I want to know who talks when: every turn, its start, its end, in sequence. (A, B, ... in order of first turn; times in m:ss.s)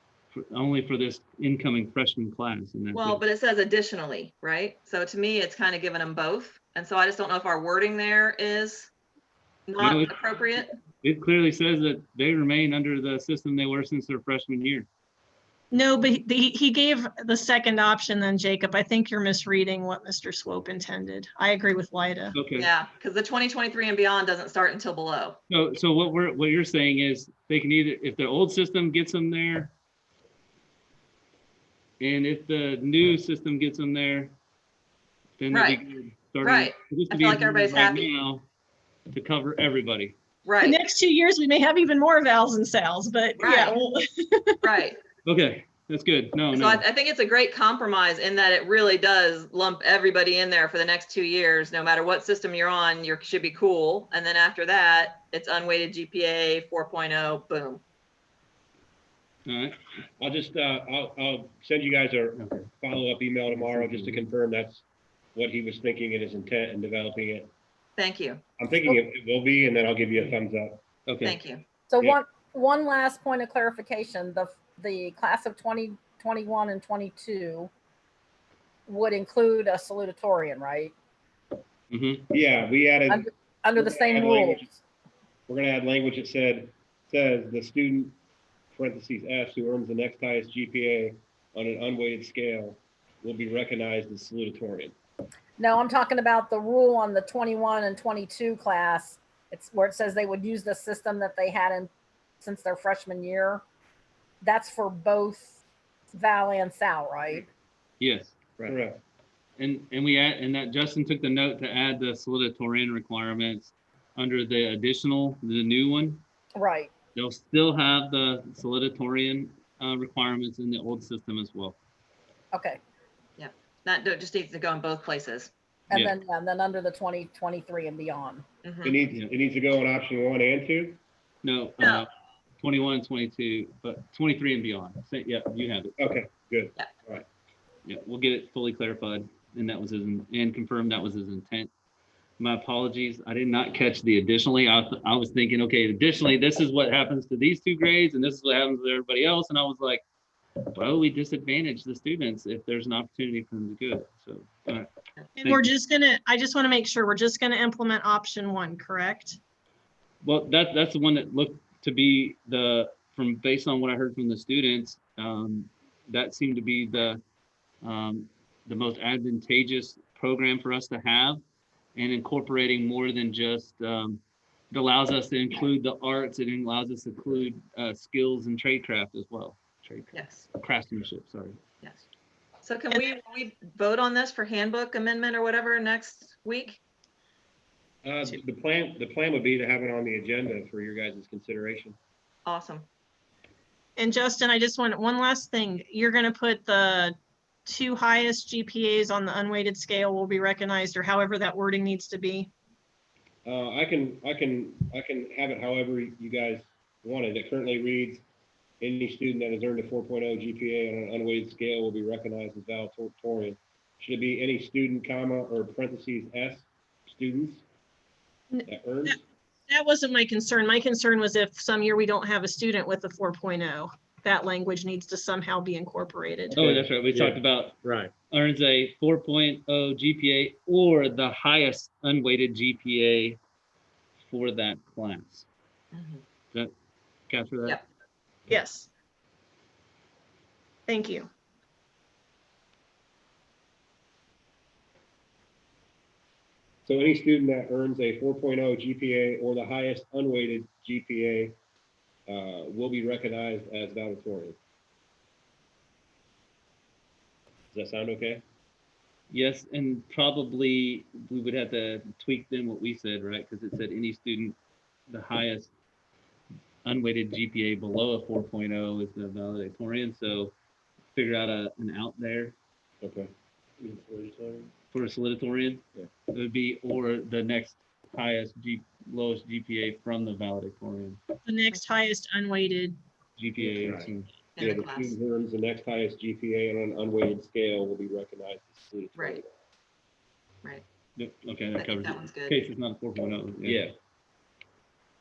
0:00.3-0:03.2 A
0:02.9-0:08.9 B
0:09.7-0:10.7 B
0:09.8-0:10.1 A
0:11.0-0:14.8 A
0:15.7-0:22.4 C
0:22.3-0:22.7 A
0:22.5-0:25.4 B
0:25.5-0:29.7 A
0:32.0-0:34.3 A
0:35.4-0:38.4 A
0:35.5-0:35.8 B
0:36.4-0:38.1 B
0:39.1-0:40.2 A
0:40.4-0:40.8 B
0:40.6-0:44.6 C
0:43.4-0:43.7 B
0:44.6-0:45.0 B
0:45.2-0:46.8 A
0:46.5-0:57.8 B
0:59.4-0:59.8 A
1:00.2-1:04.8 D
1:02.4-1:02.7 A
1:03.5-1:04.2 A
1:05.3-1:07.5 D
1:08.0-1:08.4 B
1:08.6-1:10.8 D
1:11.0-1:11.4 A
1:11.2-1:11.6 B
1:11.9-1:17.7 E
1:18.9-1:20.9 E
1:21.9-1:22.3 A
1:22.3-1:24.8 D
1:23.1-1:24.6 E
1:25.5-1:28.1 D
1:28.7-1:34.9 D
1:35.6-1:41.9 E
1:42.4-1:43.6 E
1:44.4-1:45.6 E
1:46.1-1:47.4 E
1:48.0-1:48.4 A
1:48.6-1:49.0 D
1:49.6-1:56.2 A
1:56.6-1:56.9 E
1:57.1-2:01.8 A
2:02.5-2:02.8 E
2:03.4-2:05.5 B
2:05.9-2:08.4 E
2:08.6-2:09.0 B
2:08.8-2:11.0 D
2:11.4-2:15.9 A
2:11.8-2:12.0 B
2:16.0-2:17.2 D
2:17.8-2:21.7 A
2:22.4-2:30.0 A
2:30.7-2:34.9 A
2:35.4-2:39.4 C
2:40.2-2:47.2 A
2:47.8-2:51.4 A
2:51.9-3:01.6 A
3:00.1-3:00.4 B
3:02.6-3:06.8 B
3:08.0-3:12.0 D
3:12.4-3:12.8 B
3:14.0-3:17.1 C
3:17.6-3:22.5 C
3:23.4-3:28.2 D
3:28.8-3:37.6 D
3:38.5-3:39.2 C
3:38.7-3:39.2 D
3:39.7-3:46.6 C
3:46.5-3:48.1 D
3:46.5-3:47.8 A
3:48.3-3:53.4 A
3:54.2-3:55.5 A
3:55.9-3:56.2 B
3:57.3-3:57.8 A
3:58.5-3:58.9 C
4:00.9-4:01.3 C
4:06.8-4:11.6 D
4:12.3-4:14.6 D
4:17.7-4:18.4 D
4:19.3-4:24.6 A
4:25.1-4:25.7 A
4:26.8-4:30.5 A
4:31.1-4:32.5 A
4:33.0-4:33.3 D
4:33.8-4:34.7 D
4:34.9-4:41.2 A
4:41.4-4:43.0 C
4:43.4-4:44.3 A
4:43.6-4:44.1 D
4:44.6-4:45.2 B
4:44.6-4:49.5 D
4:49.1-4:49.4 B
4:51.2-4:53.8 A
4:51.8-4:52.6 B
4:53.6-4:53.9 D